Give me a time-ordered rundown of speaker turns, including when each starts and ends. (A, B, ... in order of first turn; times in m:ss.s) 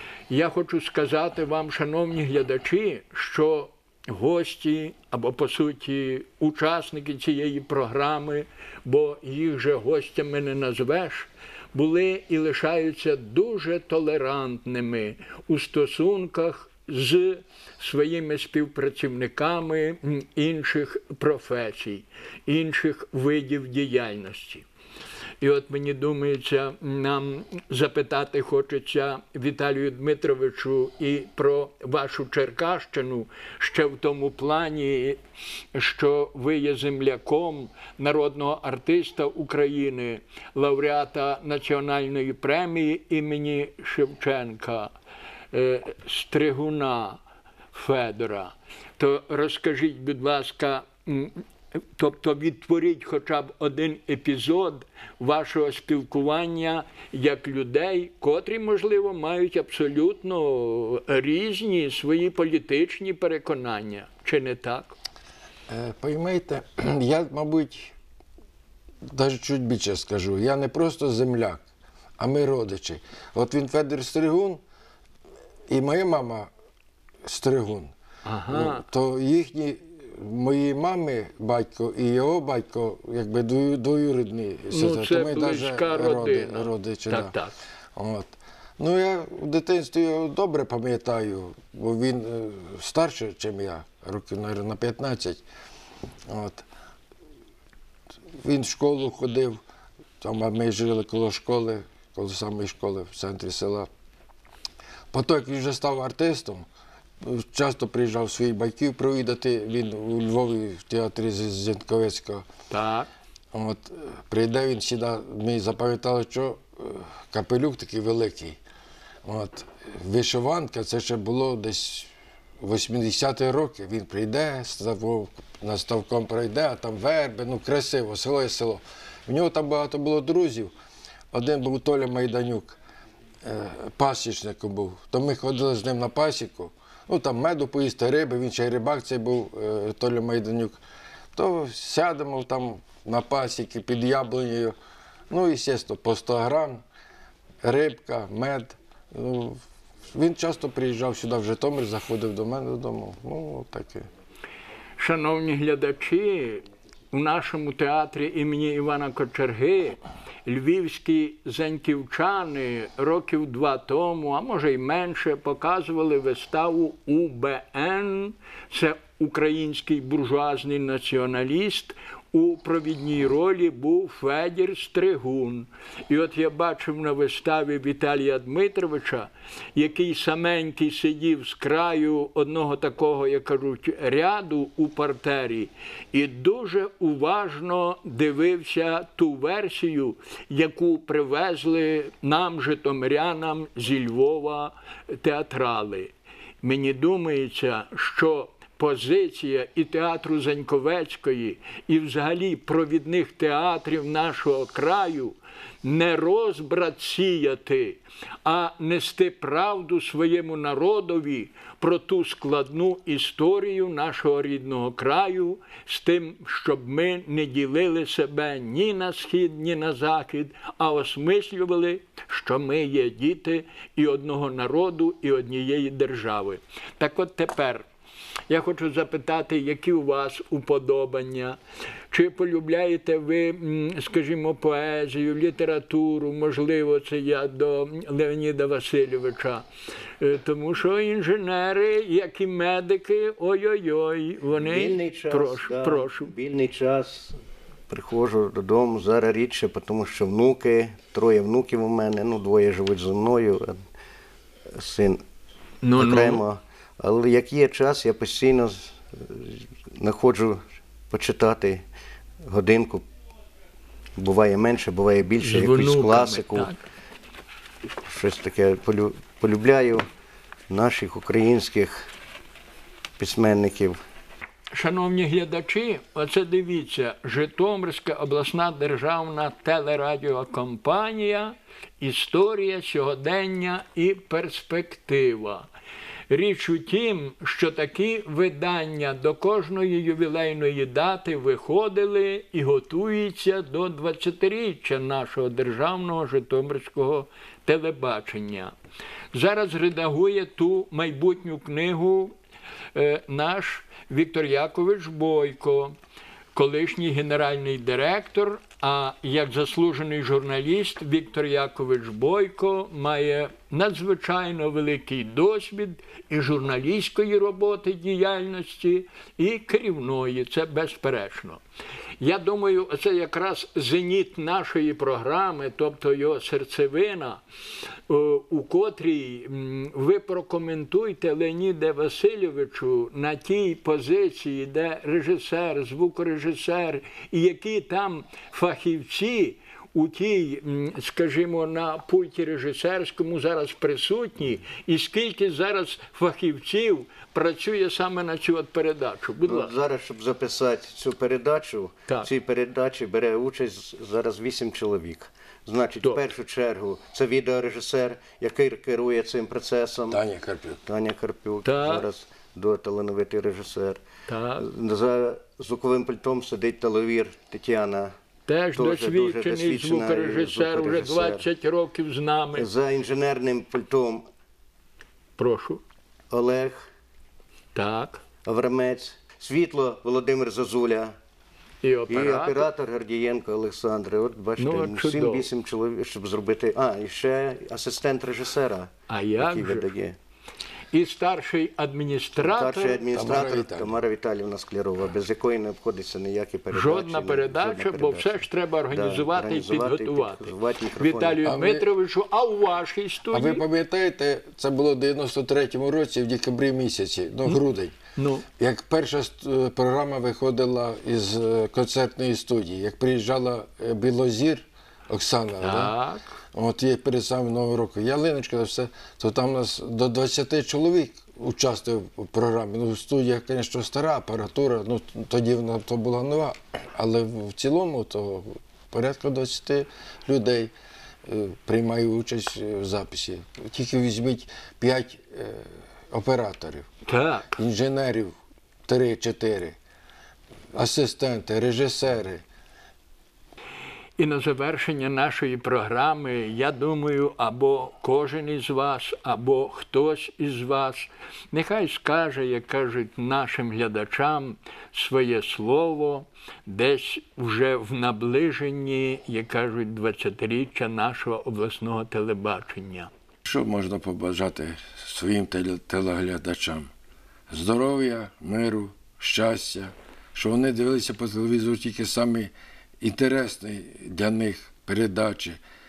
0:00.3-0:24.7 A
0:25.4-0:35.2 A
0:35.7-0:44.9 A
0:45.5-0:47.2 A
0:47.7-0:51.4 A
0:52.0-1:05.0 A
1:05.7-1:08.0 B
1:09.1-1:11.6 B
1:12.2-1:14.6 B
1:15.7-1:16.5 B
1:17.2-1:17.9 B
1:18.2-1:18.8 A
1:18.5-1:27.4 B
1:24.7-1:27.5 A
1:28.0-1:35.4 B
1:36.3-1:36.7 B
1:38.4-1:39.6 B
1:40.2-1:43.9 B
1:45.1-1:46.7 B
1:47.2-1:52.4 B
1:52.7-1:53.1 A
1:53.5-1:58.6 B
1:59.2-2:02.1 B
2:02.6-2:10.7 B
2:11.3-2:12.8 B
2:13.4-2:20.8 B
2:21.4-2:24.8 B
2:25.3-2:26.8 B
2:27.6-2:29.6 B
2:30.1-2:34.1 B
2:35.0-3:16.1 A
3:16.6-3:47.8 A
3:48.5-3:51.6 A
3:52.1-3:59.6 A
4:00.2-4:06.3 A
4:04.6-4:07.4 C
4:07.9-4:13.8 C
4:14.8-4:15.2 C
4:15.8-4:16.4 A
4:16.0-4:21.8 C
4:22.5-4:23.0 C
4:24.2-4:26.7 C
4:25.4-4:26.8 A
4:28.0-4:30.0 C
4:30.7-4:32.1 C
4:33.2-4:34.0 C
4:34.7-4:45.7 A
4:46.3-4:58.7 A
4:59.3-5:02.3 A
5:02.9-5:05.9 A
5:06.6-5:21.6 A
5:22.2-5:27.4 A
5:28.1-5:49.7 A
5:49.4-6:00.2 C
6:00.1-6:00.8 B
6:00.9-6:04.0 C
6:01.6-6:02.1 A
6:04.3-6:04.7 A
6:04.6-6:08.1 C
6:08.5-6:12.7 A
6:08.8-6:11.5 C
6:12.5-6:14.2 C
6:15.4-6:15.8 A
6:16.3-6:16.9 C
6:17.8-6:18.2 A
6:18.5-6:21.1 C
6:21.8-6:22.7 A
6:22.1-6:30.2 C
6:24.6-6:25.5 A
6:29.1-6:29.9 A
6:30.9-6:33.1 A
6:32.4-6:41.4 C
6:33.1-6:33.9 B
6:36.7-6:43.6 A
6:41.4-6:41.9 B
6:43.3-6:48.0 B
6:48.2-6:48.5 A
6:48.6-6:56.0 B
6:55.6-6:56.2 A
6:56.5-7:10.7 B
7:11.3-7:16.9 B
7:17.0-7:17.6 A
7:17.6-7:18.3 B
7:18.9-7:19.8 B
7:20.8-7:22.4 B
7:24.2-7:43.1 A
7:43.4-7:46.9 B
7:47.5-7:55.6 B